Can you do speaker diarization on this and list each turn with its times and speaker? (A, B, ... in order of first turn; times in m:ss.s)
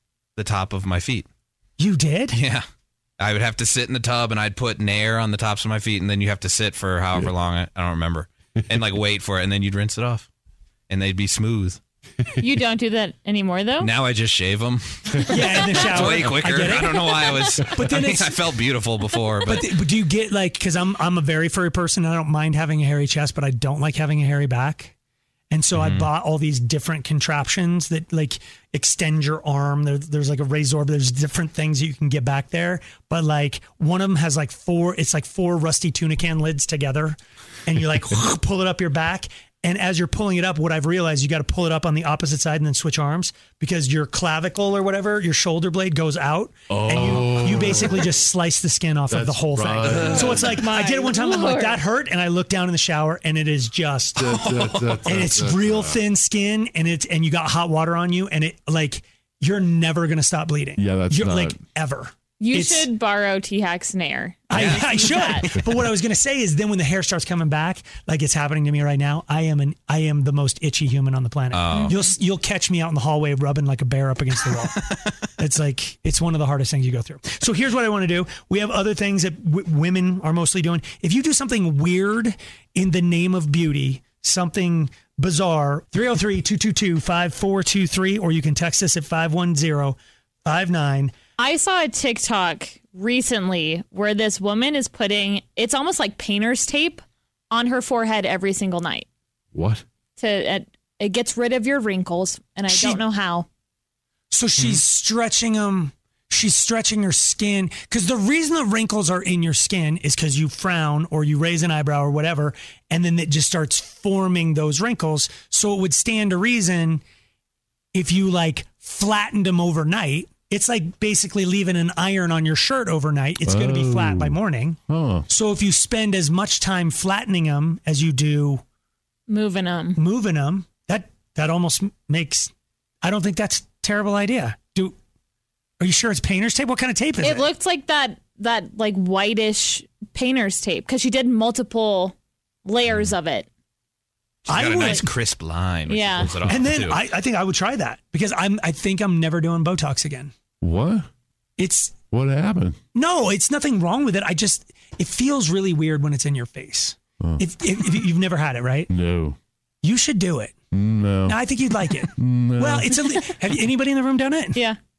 0:00.4-0:01.3 A
0:01.8-0:02.4 B
0:02.3-0:02.6 A
0:03.2-0:10.3 A
0:10.9-0:11.8 A
0:12.4-0:13.9 C
0:13.8-0:19.7 A
0:15.3-0:18.6 B
0:19.5-0:24.9 B
0:25.5-0:54.3 B
0:25.7-0:26.1 A
0:46.7-0:48.2 D
0:49.1-0:50.7 D
0:50.0-0:51.8 C
0:54.2-0:56.0 D
0:54.2-0:55.0 A
0:55.0-1:02.9 B
1:00.8-1:01.6 D
1:02.4-1:05.5 C
1:04.5-1:31.1 B
1:04.5-1:05.3 A
1:11.5-1:12.0 A
1:31.4-1:39.1 C
1:39.5-1:39.8 D
1:40.2-1:43.5 C
1:42.7-1:43.0 B
1:44.3-1:57.0 B
1:57.9-2:08.6 B
2:03.4-2:05.3 D
2:09.3-2:10.0 C
2:10.0-2:12.5 B
2:13.0-2:15.0 B
2:15.8-2:17.5 B
2:17.2-2:22.2 C
2:22.7-2:23.5 C
2:24.5-2:25.2 B
2:24.5-2:27.0 A
2:25.9-2:26.3 C
2:26.3-2:30.3 B
2:30.6-2:31.1 D
2:31.6-2:32.0 B
2:32.1-2:32.8 D
2:32.9-2:38.9 B
2:37.2-2:37.4 D
2:38.9-2:39.4 D
2:39.8-2:40.6 B
2:40.7-2:41.4 D
2:41.2-2:44.6 B
2:42.1-2:42.9 D